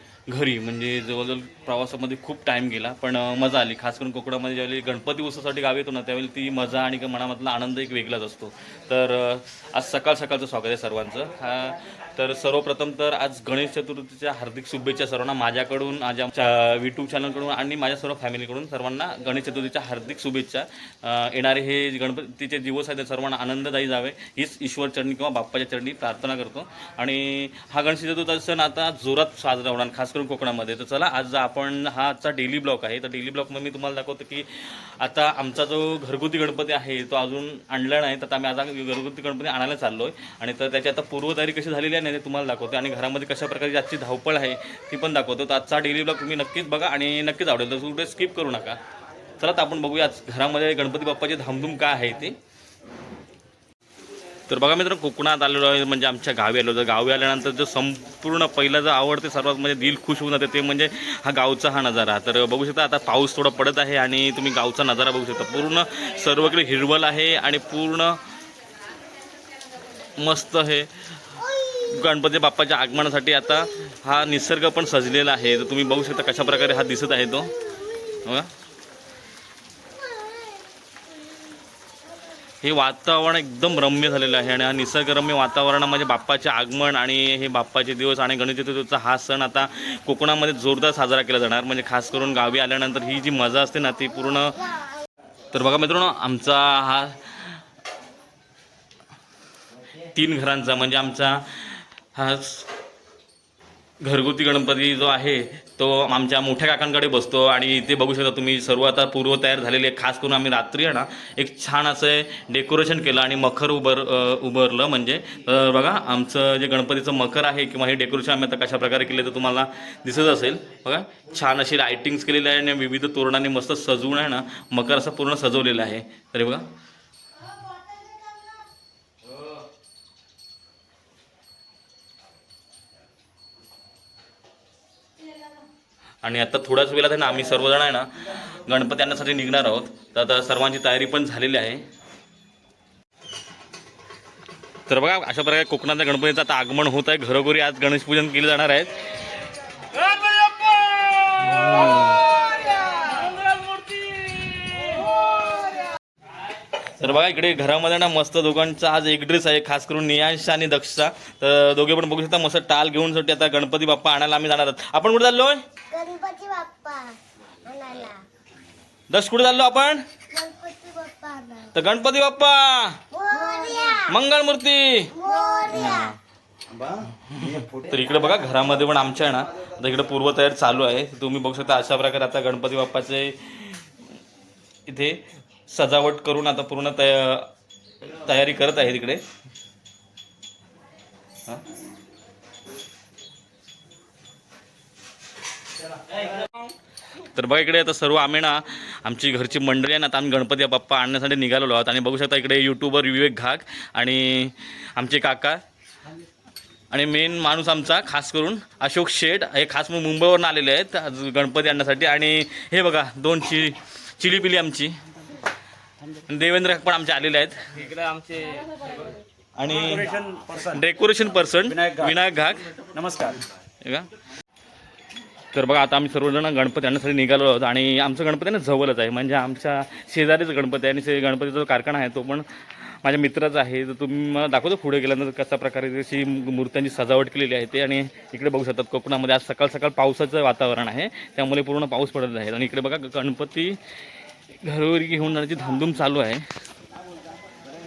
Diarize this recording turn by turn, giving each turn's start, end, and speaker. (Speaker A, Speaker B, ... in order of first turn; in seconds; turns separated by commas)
Speaker A: 0.3-48.8, Speaker A: 49.4-52.4, Speaker A: 54.5-68.2, Speaker A: 70.2-70.9, Speaker B: 71.4-72.0, Speaker A: 71.9-77.5, Speaker B: 77.6-78.1, Speaker A: 78.2-78.5, Speaker B: 80.0-80.6, Speaker A: 82.6-94.7, Speaker A: 95.5-97.6, Speaker A: 100.1-102.7, Speaker A: 104.0-126.7, Speaker A: 136.2-141.8, Speaker A: 144.9-149.0, Speaker C: 149.9-155.6, Speaker A: 151.4-152.2, Speaker A: 157.0-165.6, Speaker B: 165.9-168.2, Speaker A: 169.1-170.0, Speaker B: 170.3-171.7, Speaker A: 171.7-173.0, Speaker B: 173.1-174.2, Speaker A: 174.1-176.2, Speaker B: 175.1-176.1, Speaker A: 177.3-183.8, Speaker A: 184.9-187.5, Speaker A: 188.1-189.2, Speaker A: 197.3-205.6, Speaker A: 206.9-214.9, Speaker A: 216.3-217.6, Speaker C: 217.9-218.5, Speaker A: 219.6-222.7, Speaker A: 223.8-224.1, Speaker A: 225.5-243.8, Speaker A: 244.6-246.4